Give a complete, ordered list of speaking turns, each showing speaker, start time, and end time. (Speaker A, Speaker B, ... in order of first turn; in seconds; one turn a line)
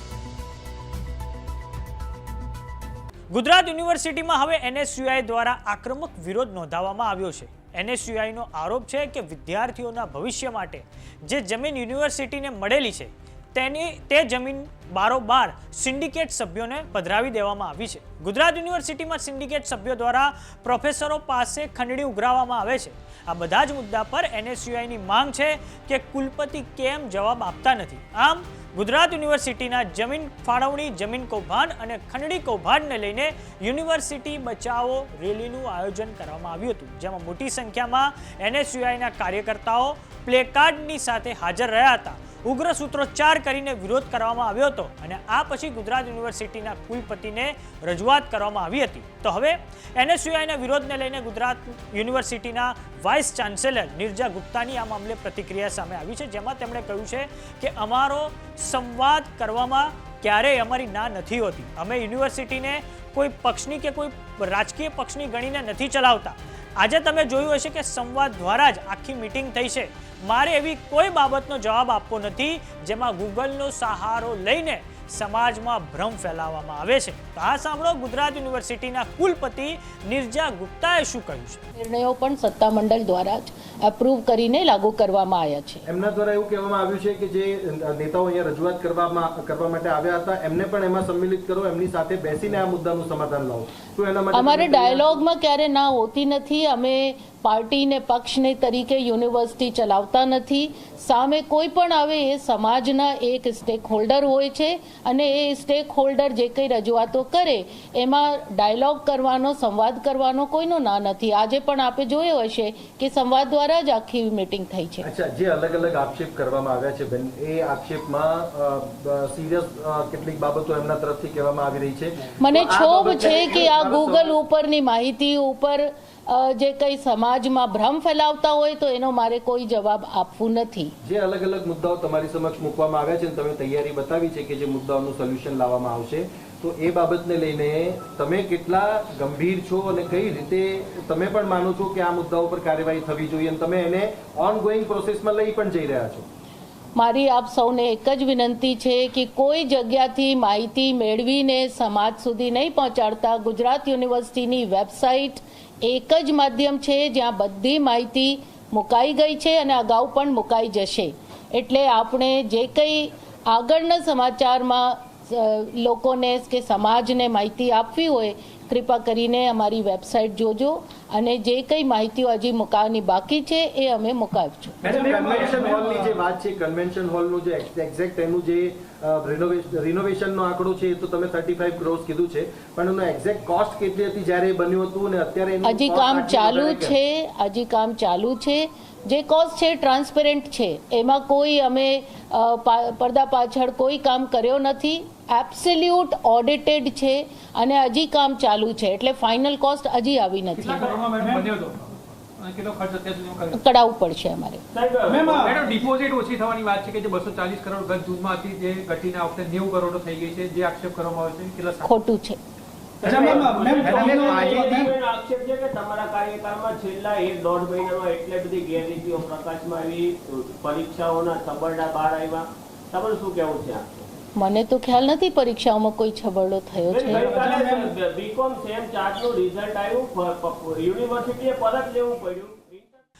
Speaker A: 3.3-81.7
Speaker B: 81.8-85.8
Speaker C: 85.9-95.2
Speaker B: 94.3-115.1
Speaker C: 115.0-124.4
Speaker B: 122.4-130.9
Speaker C: 131.0-146.3
Speaker B: 147.0-175.0
Speaker D: 174.8-176.1
Speaker C: 174.8-187.0
Speaker B: 185.6-201.1
Speaker D: 200.6-203.6
Speaker B: 203.5-204.6
Speaker E: 204.7-205.7
Speaker D: 205.1-211.9
Speaker B: 211.8-212.4
Speaker E: 213.0-224.1
Speaker D: 213.1-214.9
Speaker B: 224.4-227.5
Speaker E: 226.9-232.9
Speaker D: 227.1-227.9